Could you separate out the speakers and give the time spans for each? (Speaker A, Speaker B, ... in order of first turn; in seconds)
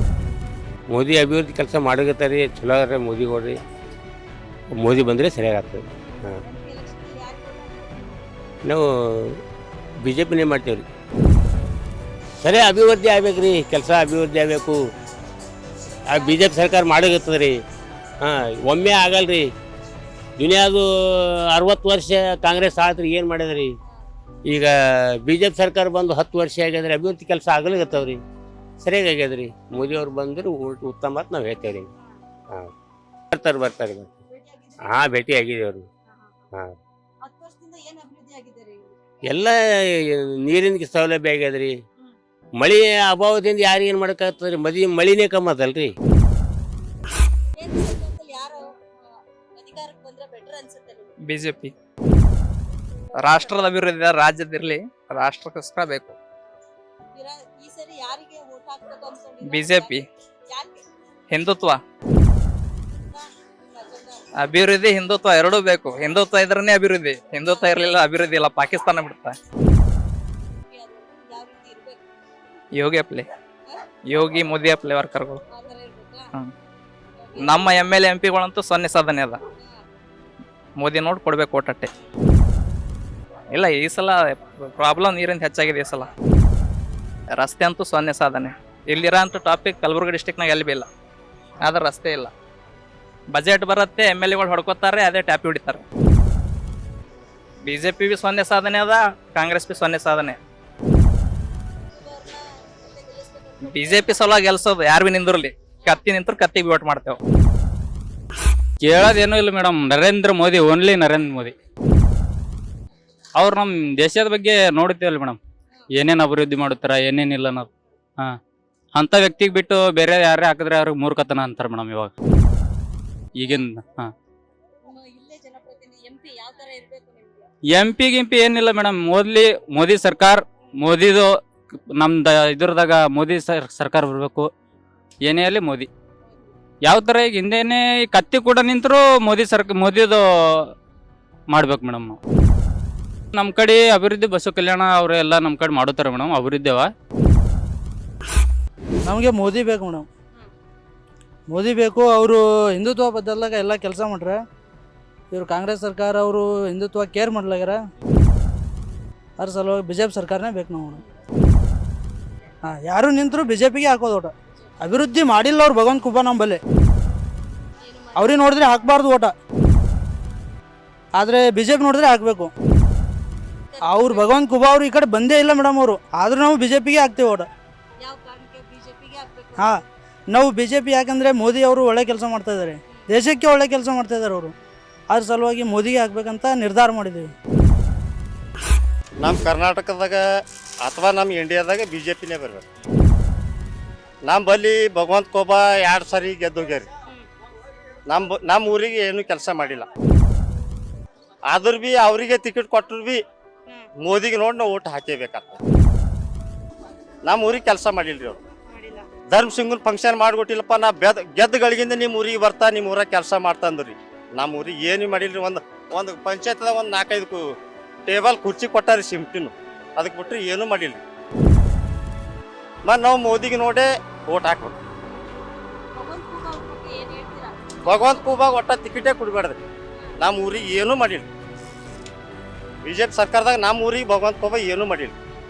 Speaker A: 0.9-3.6, 4.8-6.4, 8.7-9.4, 10.0-10.9, 12.4-14.8, 16.1-17.6, 18.2-19.5, 20.4-23.7, 24.5-28.2, 28.8-31.9, 33.3-34.1, 34.9-35.9, 39.3-41.8, 42.6-45.9
Speaker B: 6.4-8.2, 16.1-16.6, 29.8-30.0, 34.3-35.1, 36.1-36.5, 37.2-39.0, 47.6-48.7, 49.6-51.2, 57.1-60.8, 63.0-64.2, 67.5-67.9, 70.7-72.1, 75.5-76.3, 77.2-77.8, 101.9-104.4, 123.4-123.7, 124.8-127.5, 136.2-136.5, 167.8-168.9, 173.7-174.4, 178.0-179.8, 182.9-183.2, 208.7-209.1, 226.0-227.6
Speaker C: 51.3-51.7, 53.2-56.2, 59.5-60.0, 61.3-61.8, 64.4-69.4, 72.7-73.3, 74.1-75.4, 77.4-79.4, 80.8-81.9, 83.5-86.1, 87.4-90.9, 91.6-92.3, 93.3-95.8, 97.7-100.4, 103.7-107.2
Speaker D: 108.8-111.5, 113.4-115.4, 116.0-117.7, 119.0-122.1, 123.4-124.1, 127.7-131.3, 132.0-134.5, 135.3-135.9, 136.9-140.2, 141.5-142.2, 143.3-146.9
Speaker E: 149.1-150.1, 151.5-154.4, 155.3-157.8, 159.4-161.0, 162.6-166.6, 168.2-169.3, 171.2-172.5, 173.8-177.5, 179.6-184.5, 185.1-187.3
Speaker F: 189.2-190.2, 190.8-192.6, 194.2-196.9, 198.1-199.9, 201.5-203.2, 204.0-205.6, 207.2-208.4, 209.3-217.4, 218.1-221.0, 222.8-224.7, 227.8-229.6, 230.2-231.3, 232.8-235.1